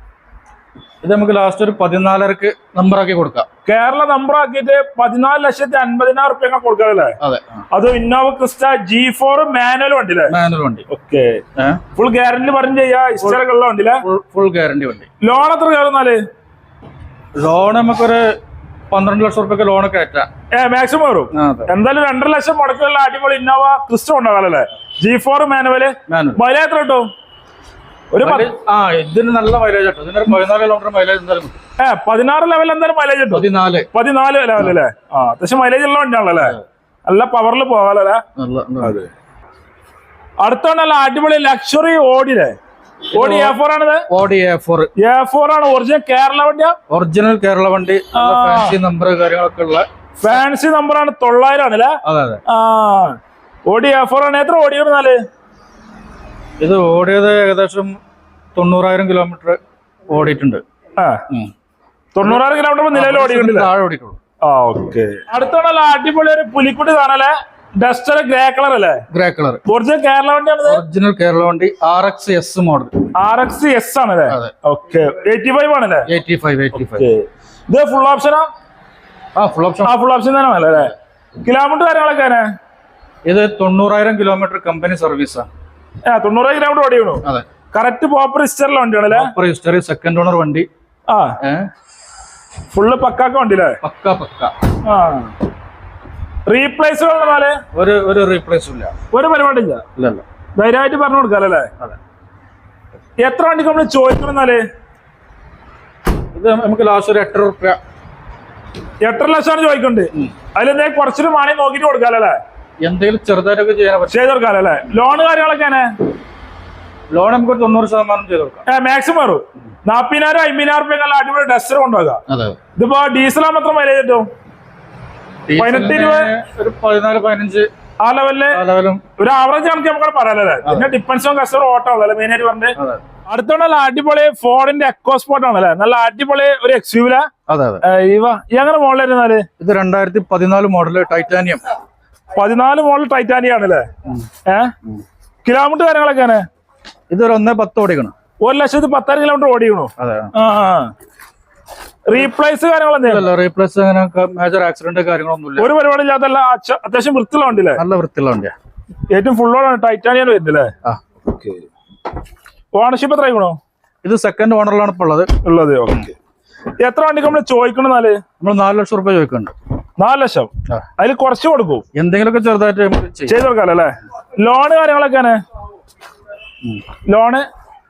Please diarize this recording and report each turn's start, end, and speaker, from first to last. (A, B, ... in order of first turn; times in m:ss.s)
0:01.0-0:03.5 A
0:03.7-0:07.2 B
0:07.2-0:07.5 A
0:07.7-0:10.4 B
0:10.3-0:10.9 A
0:10.9-0:11.4 B
0:12.0-0:14.0 B
0:14.0-0:15.1 A
0:15.2-0:16.2 B
0:17.4-0:18.3 A
0:18.9-0:20.3 A
0:20.5-0:27.1 B
0:21.4-0:21.7 A
0:26.1-0:26.4 A
0:28.1-0:28.5 B
0:28.2-0:31.6 A
0:31.8-0:38.2 B
0:33.3-0:33.9 A
0:38.4-0:39.0 A
0:38.8-0:39.1 B
0:40.4-0:42.6 B
0:43.1-0:43.6 A
0:43.1-0:44.0 B
0:44.1-0:44.9 A
0:45.0-0:46.8 B
0:46.9-0:49.9 A
0:48.1-0:48.8 B
0:50.2-0:55.2 B
0:52.0-0:52.4 A
0:56.6-0:58.0 A
0:58.6-0:59.6 A
1:00.1-1:00.6 A
1:01.0-1:01.2 B
1:02.2-1:03.7 B
1:02.2-1:04.2 A
1:04.4-1:09.0 B
1:09.1-1:09.6 A
1:09.7-1:10.8 B
1:10.7-1:12.9 A
1:13.2-1:16.1 B
1:16.1-1:17.1 A
1:16.8-1:18.5 B
1:19.4-1:20.0 A
1:19.8-1:22.5 B
1:23.2-1:25.5 A
1:26.1-1:29.3 B
1:29.1-1:30.7 A
1:31.1-1:31.4 B
1:31.4-1:31.7 A
1:32.7-1:33.8 B
1:33.8-1:34.5 A
1:34.8-1:35.3 B
1:36.5-1:37.6 B
1:37.7-1:38.9 A
1:39.1-1:39.8 B
1:40.0-1:40.2 A
1:40.6-1:41.7 B
1:43.2-1:44.6 B
1:46.3-1:47.8 A
1:49.0-1:52.4 B
1:52.8-1:54.2 A
1:54.1-1:55.9 B
1:57.1-1:58.6 A
1:58.7-2:02.2 B
2:02.3-2:02.6 A
2:02.8-2:04.3 B
2:05.5-2:07.7 A
2:05.6-2:06.3 B
2:08.0-2:08.6 B
2:08.5-2:09.0 A
2:09.2-2:12.8 B
2:10.6-2:10.9 A
2:13.3-2:17.3 B
2:17.5-2:17.8 A
2:17.8-2:19.5 B
2:19.6-2:21.6 A
2:22.4-2:23.9 B
2:24.5-2:24.7 B
2:25.4-2:26.4 B
2:27.1-2:28.1 A
2:28.4-2:30.9 B
2:30.0-2:30.3 A
2:32.1-2:33.3 B
2:33.0-2:35.7 A
2:35.6-2:37.8 B
2:37.8-2:38.5 A
2:39.1-2:40.7 B
2:41.3-2:41.6 B
2:42.7-2:43.6 B
2:44.0-2:45.3 A
2:45.4-2:46.2 B
2:46.8-2:48.2 B
2:48.4-2:49.5 A
2:50.0-2:51.8 B
2:52.0-2:53.4 A
2:53.3-2:55.4 B
2:57.1-2:57.4 B